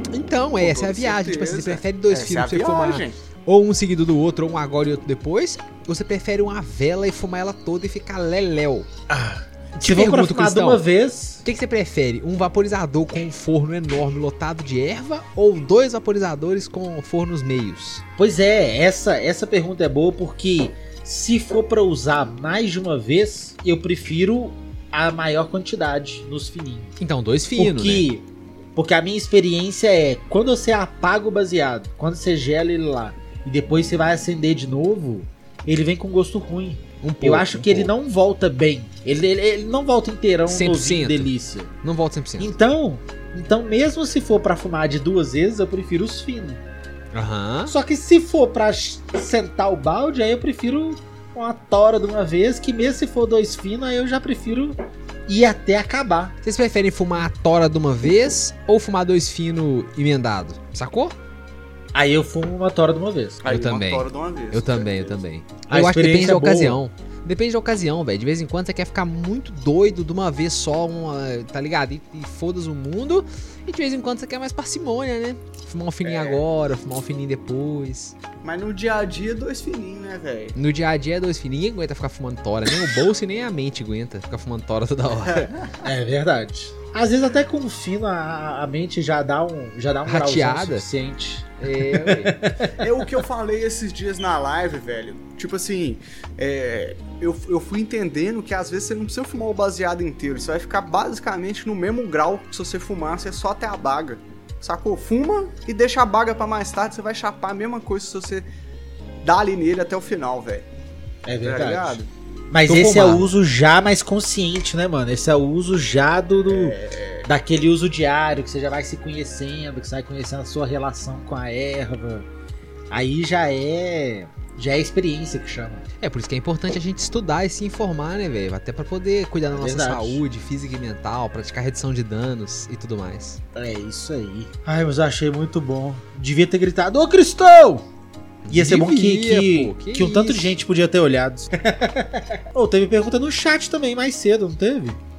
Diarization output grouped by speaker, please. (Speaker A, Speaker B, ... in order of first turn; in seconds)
Speaker A: 0.1-8.9, 9.8-10.8, 11.4-18.0, 27.0-28.1, 37.0-37.9, 40.5-41.3, 41.8-42.5, 47.1-47.7, 56.4-61.1, 63.5-78.2, 80.6-85.5, 90.1-90.9, 91.6-92.4, 112.7-113.2, 126.0-133.4, 138.4-140.6
Speaker B: 0.6-3.2, 63.4-65.2, 76.0-76.5, 78.4-80.6, 85.3-85.7, 92.7-108.5, 109.2-110.7, 111.4-112.1, 116.5-117.3
Speaker C: 9.1-11.4, 18.2-26.9, 27.6-41.7, 42.4-46.6, 47.7-54.8, 55.3-56.3, 61.9-63.5, 65.7-66.8, 85.8-92.9, 111.3-112.0, 112.5-122.3, 122.9-125.8, 129.5-130.2, 133.6-137.8, 138.5-145.0